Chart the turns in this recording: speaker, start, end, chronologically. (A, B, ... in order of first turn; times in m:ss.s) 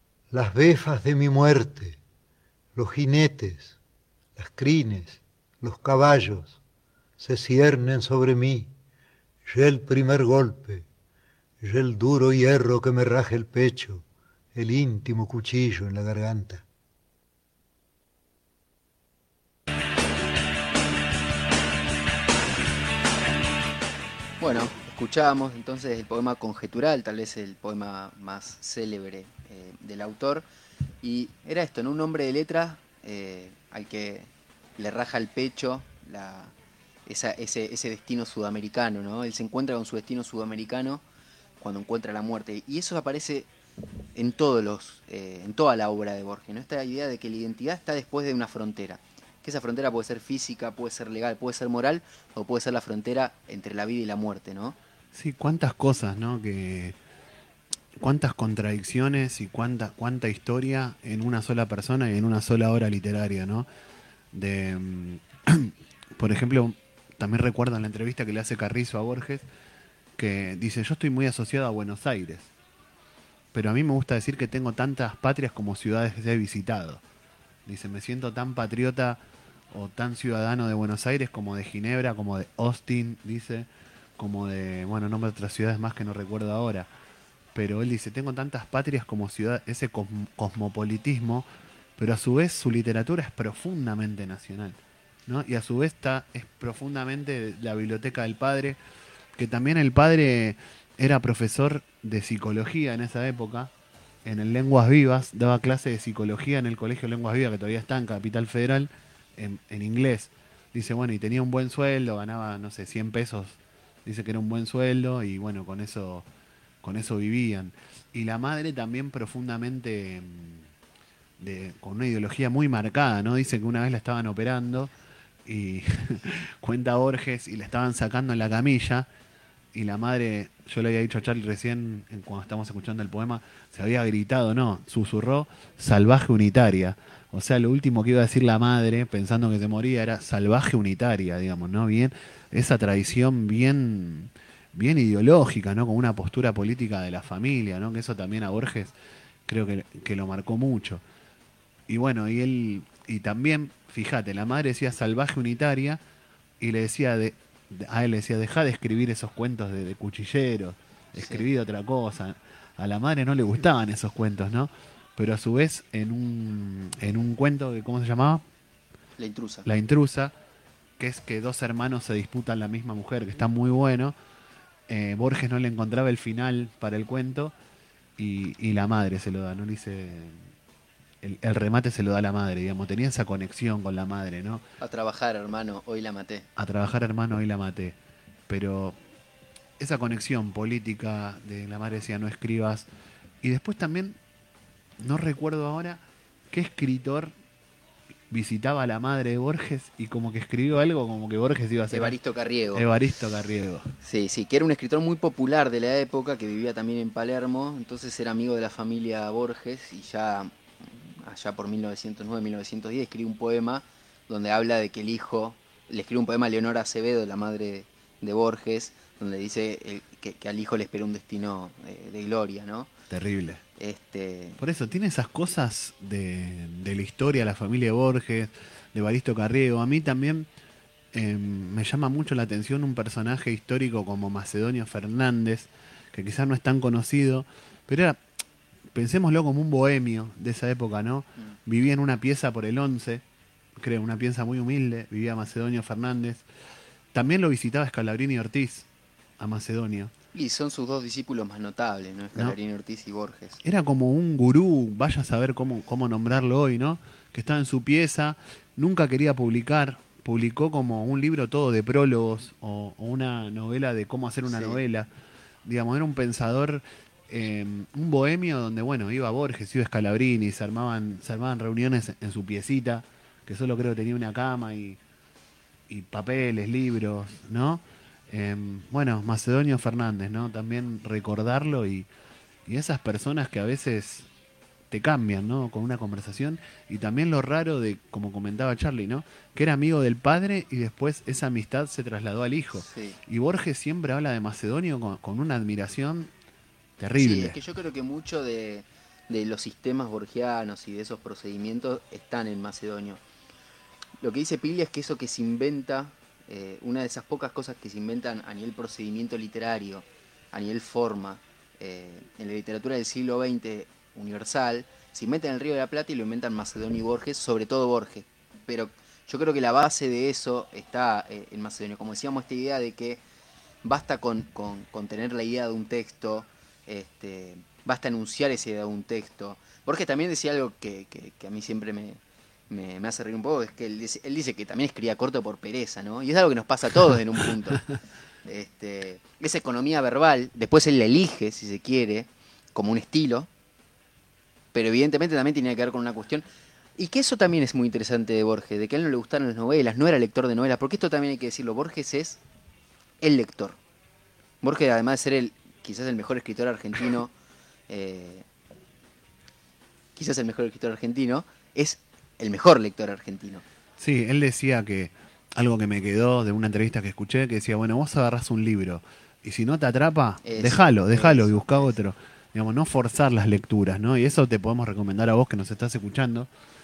0:00.3-0:02.0 A
0:02.8-0:03.8 A
0:04.4-0:06.6 A
0:07.2-0:08.7 A
0:09.5-0:10.9 A
0:11.6-0:16.6 A
0:24.4-0:30.5 B
0:31.0-0:36.5 B
0:37.1-0:41.0 B
0:41.6-0:43.5 B
0:44.2-0:54.8 B
0:55.1-0:57.0 C
0:58.0-1:03.7 C
1:04.3-1:09.4 C
1:10.2-1:12.5 C
1:13.5-1:17.0 C
1:17.7-1:19.2 C
1:19.7-1:26.9 C
1:27.5-1:31.5 C
1:32.0-1:38.8 C
1:39.4-1:43.7 C
1:44.2-1:56.3 C
1:56.8-2:00.7 C
2:01.4-2:04.9 C
2:05.4-2:09.1 C
2:09.7-2:28.9 C
2:29.5-2:31.0 C
2:31.9-2:36.0 C
2:36.6-2:48.4 C
2:41.2-2:41.4 B
2:49.2-2:49.7 B
2:49.6-2:50.3 C
2:51.0-2:54.1 C
2:54.9-2:57.5 C
2:58.2-3:00.4 C
3:01.2-3:04.6 C
3:04.8-3:06.5 B
3:06.6-3:08.0 C
3:08.5-3:09.0 C
3:09.8-3:12.9 C
3:13.4-3:14.2 C
3:15.0-3:17.3 C
3:18.3-3:22.2 C
3:21.9-3:22.9 B
3:22.8-3:23.9 C
3:24.0-3:42.9 B
3:43.1-3:43.6 C
3:43.8-3:44.6 B
3:44.6-3:50.5 C
3:51.1-3:58.2 C
3:58.9-4:03.2 C
4:03.8-4:06.4 C
4:07.1-4:08.9 C
4:09.4-4:10.1 C
4:10.3-4:13.6 B
4:13.6-4:25.1 C
4:24.5-4:24.8 B
4:25.6-4:35.0 C
4:35.9-4:42.1 C
4:42.7-4:44.3 C
4:44.9-4:56.3 C
4:52.8-4:53.2 B
4:57.0-4:57.6 C
4:57.2-5:03.2 B
5:04.2-5:23.2 B
5:23.8-5:32.2 B
5:32.7-5:37.9 B
5:38.4-5:43.5 B
5:44.7-5:46.4 B
5:47.0-5:52.4 B
5:53.2-5:53.8 B
5:54.6-5:57.3 B
5:57.9-5:58.5 B
6:00.2-6:03.6 B
6:04.0-6:16.5 C
6:10.4-6:11.9 B